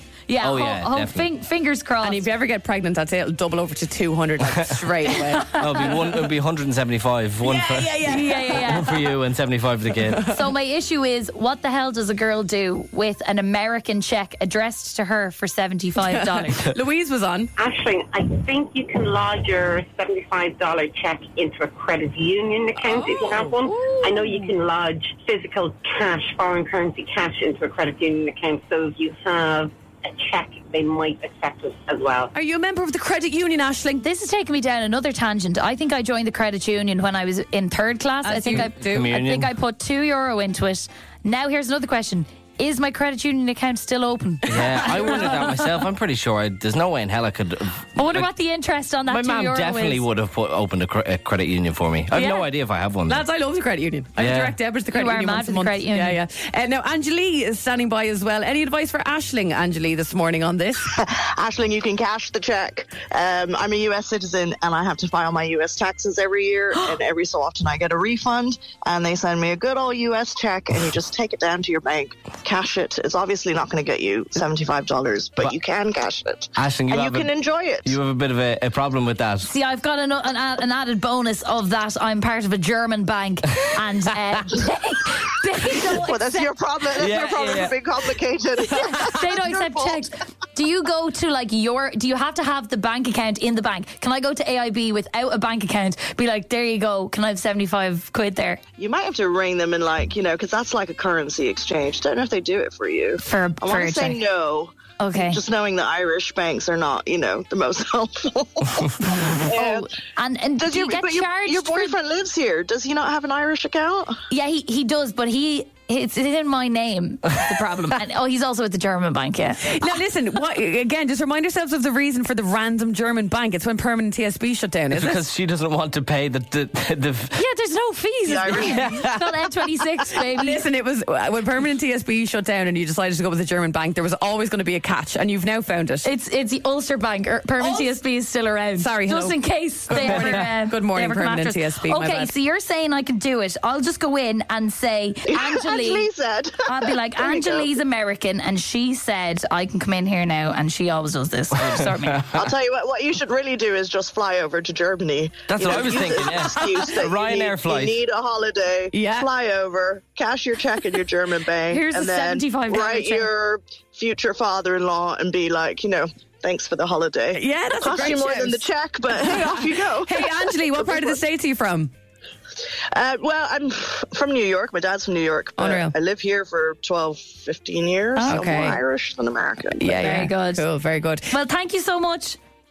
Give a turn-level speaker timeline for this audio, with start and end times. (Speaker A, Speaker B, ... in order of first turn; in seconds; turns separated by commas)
Speaker A: 0.3-2.2, Speaker B: 0.4-1.3, Speaker C: 2.0-6.2, Speaker B: 4.4-4.8, Speaker A: 5.1-6.0, Speaker B: 5.5-10.3, Speaker C: 7.4-8.9, Speaker A: 8.0-9.1, Speaker C: 10.0-10.4, Speaker A: 10.3-16.6, Speaker C: 16.0-17.5, Speaker D: 17.6-32.3, Speaker C: 22.8-24.5, Speaker C: 32.3-34.0, Speaker A: 34.0-45.6, Speaker C: 38.2-39.1, Speaker B: 38.6-39.5, Speaker B: 44.5-48.3, Speaker C: 44.5-45.3, Speaker A: 48.0-50.0, Speaker B: 49.0-53.2, Speaker A: 52.1-52.4, Speaker C: 53.1-60.8, Speaker B: 54.2-54.5, Speaker A: 54.9-56.2, Speaker E: 60.9-78.0, Speaker B: 76.6-77.3, Speaker B: 77.8-79.5, Speaker A: 79.4-86.5, Speaker E: 85.9-90.1, Speaker B: 87.0-87.7, Speaker A: 88.6-98.6, Speaker E: 98.8-109.9, Speaker A: 103.2-104.2, Speaker A: 105.0-105.4, Speaker A: 109.0-112.0, Speaker E: 110.5-114.2, Speaker A: 114.3-119.8, Speaker C: 119.6-125.2, Speaker B: 124.9-127.4, Speaker A: 127.3-130.6, Speaker E: 128.2-129.0, Speaker B: 128.5-129.3, Speaker C: 130.3-136.1, Speaker A: 136.0-146.1, Speaker C: 137.6-137.9, Speaker C: 138.8-142.3, Speaker E: 145.3-147.7, Speaker A: 146.6-152.3, Speaker B: 151.6-152.2, Speaker E: 152.3-171.2, Speaker B: 155.5-158.0, Speaker C: 155.7-156.8, Speaker C: 158.9-159.3, Speaker A: 161.7-163.3, Speaker C: 167.3-171.9, Speaker E: 172.9-179.9, Speaker C: 175.6-175.9, Speaker A: 178.2-178.5, Speaker C: 178.3-178.8, Speaker C: 179.8-181.3, Speaker A: 179.8-180.6, Speaker A: 181.3-182.4